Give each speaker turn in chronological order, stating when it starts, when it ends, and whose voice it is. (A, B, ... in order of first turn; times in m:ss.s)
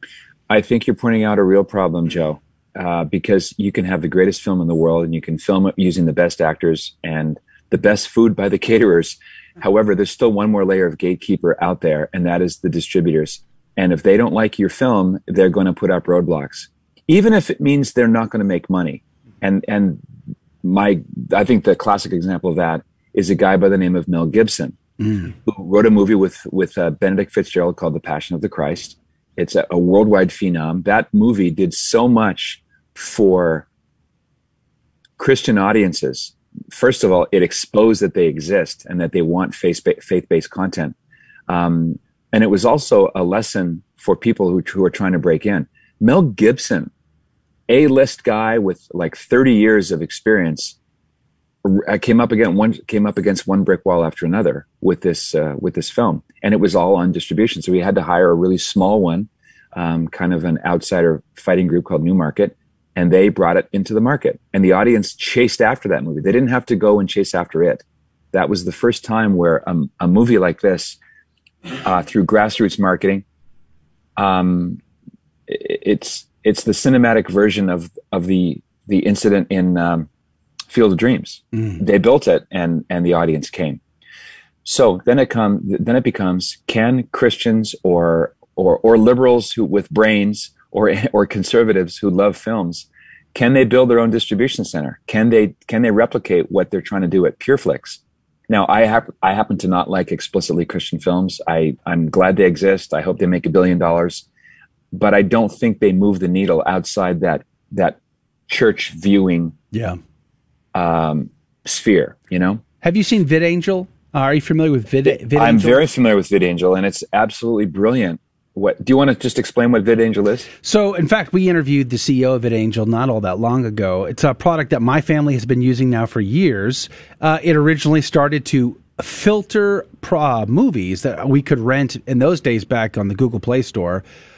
0:00.5-0:20.0 A
0:20.6-0:24.8 A
0:25.3-0:33.6 A
0:35.2-0:41.0 A
0:41.5-0:46.9 A
0:47.7-0:50.8 A
0:51.6-1:11.0 A
1:11.8-1:13.2 A
1:14.2-1:14.8 A
1:15.5-1:20.1 A
1:20.7-1:23.8 A
1:24.6-1:44.2 A
1:44.9-1:49.5 A
1:49.7-1:50.0 B
1:50.7-1:52.6 A
1:52.8-1:55.8 B
1:55.1-2:00.5 A
2:00.6-2:14.0 B